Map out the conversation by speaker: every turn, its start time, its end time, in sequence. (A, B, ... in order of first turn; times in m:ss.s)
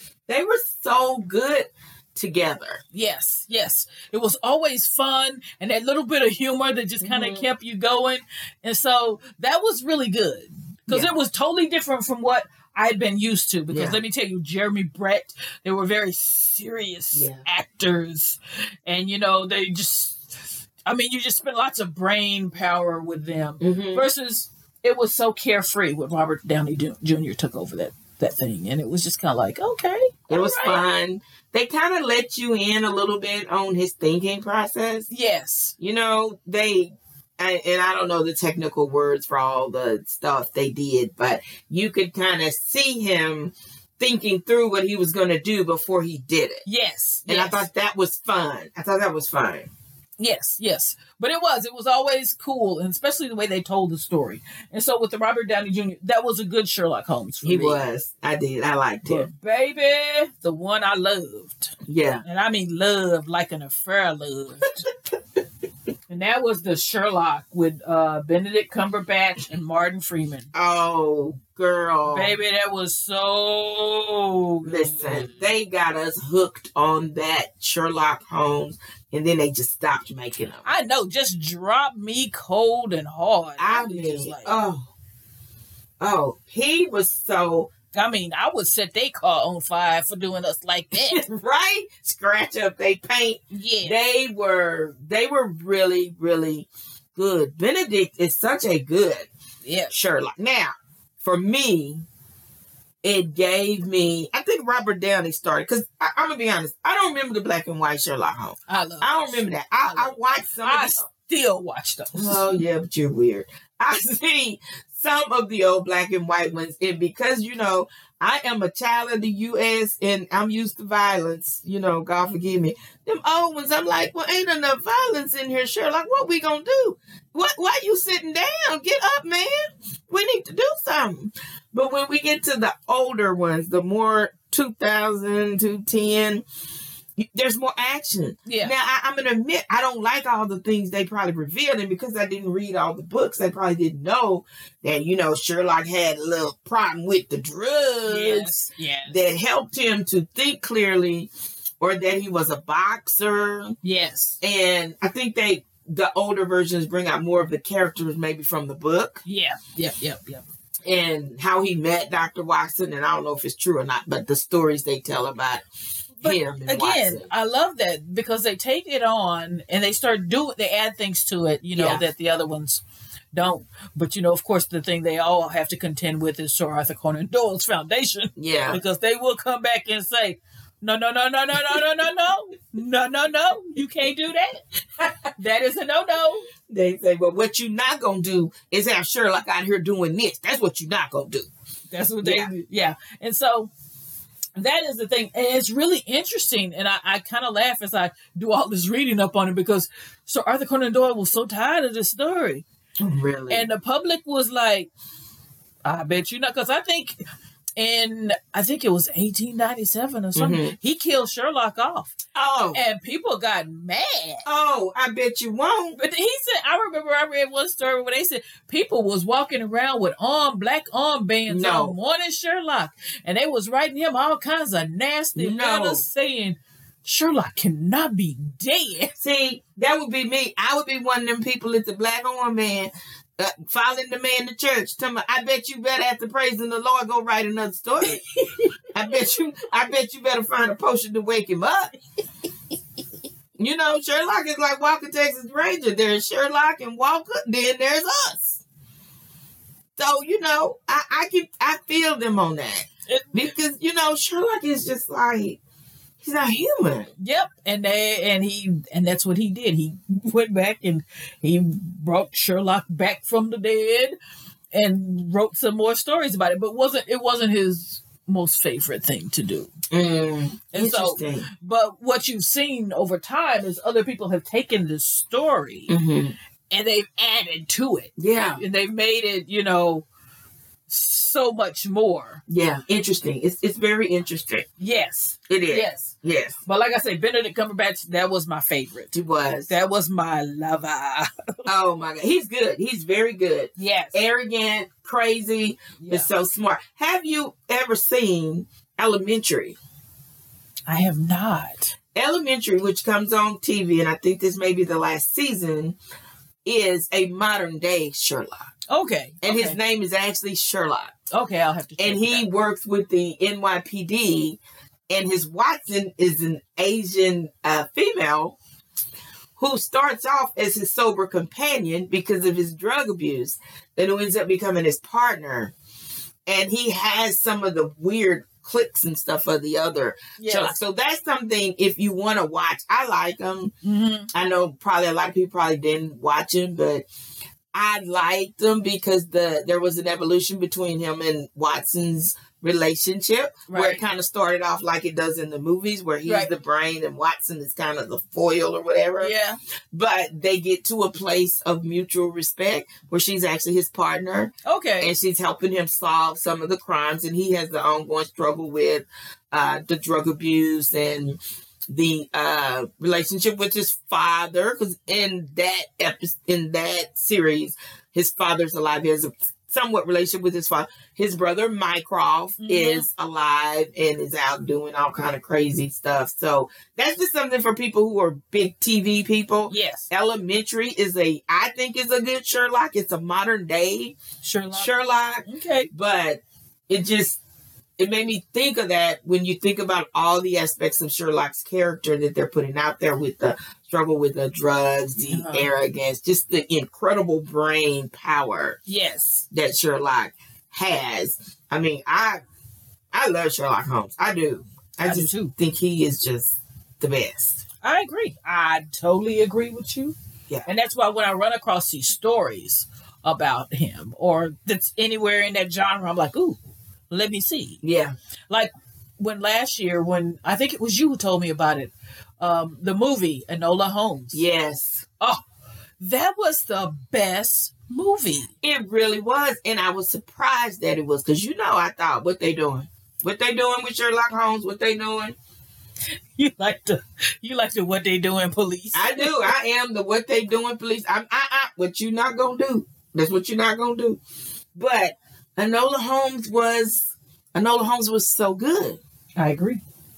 0:00.3-0:02.8 A
0:02.9-0:20.2 B
0:07.0-0:07.4 A
0:10.9-0:11.1 A
0:13.7-0:14.0 A
0:17.1-0:17.4 A
0:20.8-0:30.8 B
0:23.6-0:24.1 A
0:30.3-0:35.1 A
0:35.1-0:35.7 B
0:35.8-0:46.6 A
0:46.6-0:47.7 B
0:47.3-0:49.7 A
0:50.2-0:57.8 B
0:57.4-0:59.3 A
0:59.0-1:01.7 B
1:01.8-1:02.2 A
1:02.2-1:04.7 B
1:06.1-1:10.5 B
1:10.5-1:12.3 A
1:12.1-1:15.4 B
1:14.6-1:20.7 A
1:20.6-1:24.6 B
1:23.6-1:24.9 A
1:26.0-1:27.7 A
1:27.9-1:31.2 B
1:30.9-1:39.3 A
1:33.5-1:34.0 B
1:39.6-1:39.9 B
1:39.9-1:42.0 A
1:43.0-1:51.0 A
1:48.7-1:52.4 B
1:52.1-2:16.4 A
2:17.2-2:28.5 A
2:18.4-2:18.7 B
2:28.0-2:29.2 B
2:29.1-2:31.3 A
2:31.8-2:33.8 A
2:33.8-2:34.4 B
2:34.4-2:39.2 A
2:39.2-2:40.4 B
2:40.8-2:45.6 A
2:46.2-2:52.8 B
2:46.2-2:47.3 A
2:51.7-2:52.0 A
2:53.3-3:04.6 B
2:58.4-2:58.8 A
3:05.4-3:06.5 B
3:06.7-3:11.5 A
3:11.9-3:13.7 B
3:12.2-3:12.5 A
3:14.6-3:22.6 B
3:23.0-3:23.7 A
3:23.5-3:24.9 B
3:25.8-3:27.2 B
3:27.8-3:32.1 B
3:30.3-3:30.8 A
3:32.3-3:32.8 A
3:32.7-3:34.4 B
3:34.4-3:36.0 A
3:36.0-3:49.1 B
3:41.5-3:42.0 A
3:45.4-3:46.0 A
3:49.2-3:58.2 A
3:58.0-3:58.7 B
3:58.9-4:01.9 A
4:03.6-4:08.6 A
4:10.0-4:15.6 A
4:13.1-4:13.5 B
4:16.2-4:17.1 A
4:17.2-4:24.2 B
4:24.7-4:29.7 B
4:29.9-4:31.5 A
4:30.7-4:35.9 B
4:35.9-4:36.4 A
4:36.7-4:40.0 B
4:38.2-4:38.6 A
4:40.9-4:42.4 B
4:42.5-4:44.7 A
4:44.8-4:49.1 B
4:45.5-4:46.6 A
4:49.1-4:49.7 A
4:49.7-4:51.7 B
4:51.6-4:59.8 A
4:53.8-4:54.2 B
4:56.0-4:56.3 B
5:00.9-5:01.9 B
5:02.1-5:06.0 A
5:06.6-5:08.7 A
5:08.9-5:09.8 B
5:09.4-5:11.1 A
5:11.3-5:12.4 B
5:12.0-5:14.6 A
5:15.1-5:18.6 A
5:19.6-5:25.7 A
5:26.4-5:33.7 A
5:30.4-5:30.8 B
5:33.8-5:34.3 B
5:34.3-5:37.0 A
5:37.7-5:49.3 A
5:43.7-5:44.0 B
5:46.2-5:46.5 B
5:49.2-5:49.6 B
5:49.9-6:01.4 A
5:54.6-5:55.1 B
6:01.9-6:24.2 A
6:12.6-6:13.1 B
6:19.7-6:20.1 B
6:24.4-6:25.9 B
6:24.7-6:27.4 A
6:28.0-6:38.8 A
6:35.3-6:35.7 B
6:38.9-6:39.4 B
6:39.5-6:42.4 A
6:43.1-6:47.6 A
6:45.0-6:45.5 B
6:47.8-6:50.1 B
6:50.6-6:56.6 B
6:57.1-6:57.8 B
6:57.8-6:58.1 A
6:58.5-7:04.4 B
7:04.3-7:05.0 A
7:06.0-7:08.5 B
7:08.6-7:15.4 A
7:16.4-7:19.5 B
7:18.9-7:24.2 A
7:24.7-7:29.0 A
7:29.4-7:29.8 B